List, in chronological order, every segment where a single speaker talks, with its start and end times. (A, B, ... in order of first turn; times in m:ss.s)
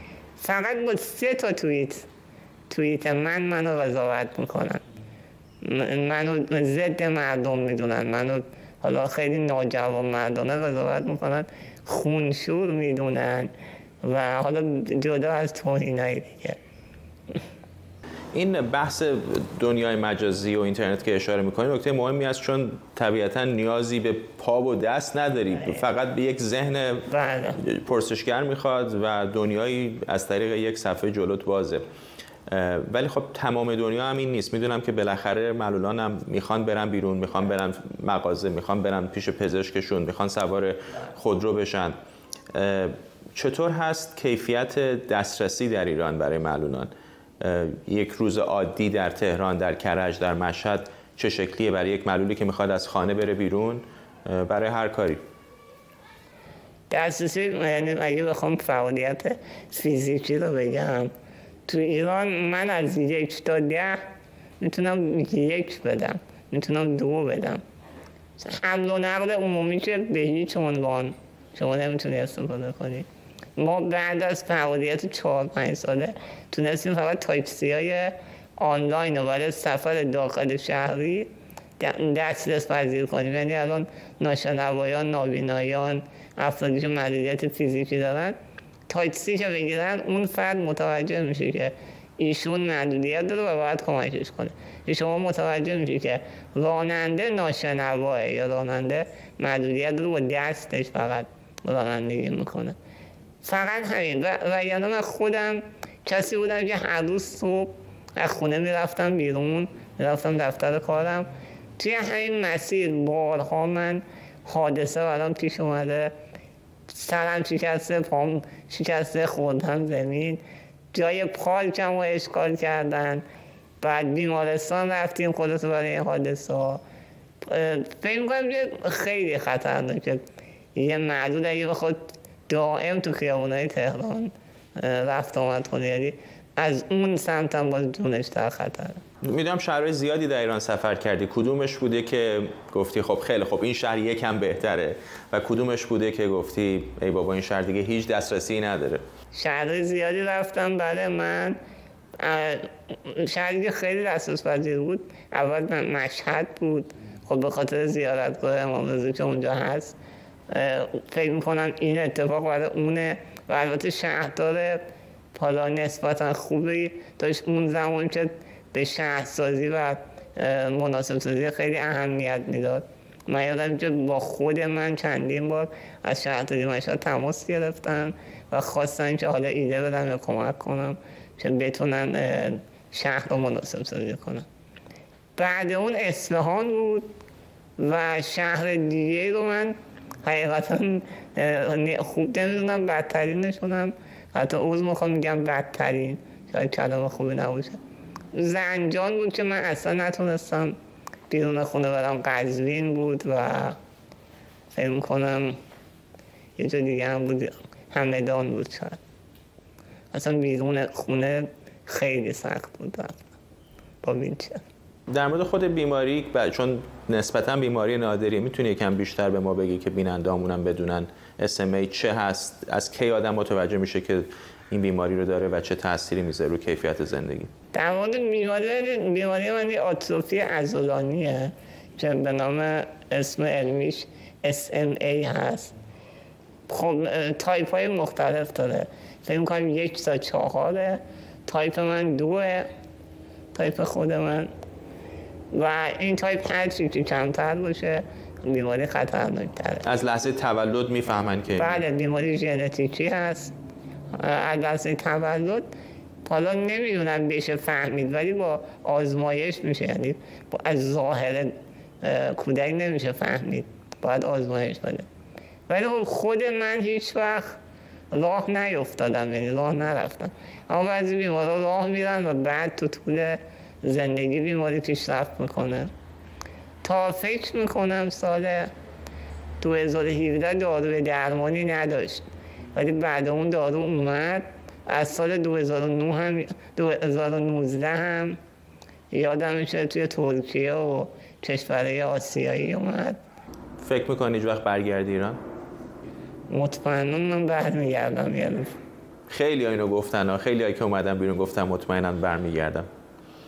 0:00.4-0:02.1 A
0:02.7-0:04.8 A
0:05.6-0:16.6 A
0:18.3-0:31.8 B
0:27.1-0:27.6 A
0:32.5-0:42.0 B
0:42.5-0:55.2 B
0:56.9-1:01.1 A
1:01.7-1:04.0 A
1:04.6-1:07.6 A
1:08.4-1:28.4 A
1:28.9-1:42.8 A
1:43.4-1:56.1 A
1:56.9-2:03.2 A
2:03.8-2:06.8 A
2:07.4-2:10.2 A
2:10.8-2:19.0 A
2:19.2-2:29.0 B
2:29.3-2:31.6 A
2:32.2-2:40.0 A
2:40.5-3:04.5 A
3:05.4-3:07.1 A
3:07.8-3:17.8 A
3:18.3-3:20.8 A
3:21.3-3:23.8 A
3:24.7-3:25.6 A
3:26.6-3:29.0 A
3:30.1-3:33.3 A
3:34.0-3:34.6 A
3:35.1-3:47.5 B
3:47.7-3:55.7 A
3:56.7-4:02.7 A
4:03.5-4:04.5 A
4:05.5-4:09.9 A
4:09.8-4:11.8 B
4:11.6-4:13.5 A
4:14.2-4:15.7 A
4:16.2-4:25.1 A
4:25.7-4:27.6 A
4:28.1-4:35.9 A
4:36.8-4:38.7 A
4:39.6-4:48.4 A
4:49.1-4:53.2 A
4:53.8-4:55.4 B
4:56.5-4:58.7 A
4:59.3-5:02.9 B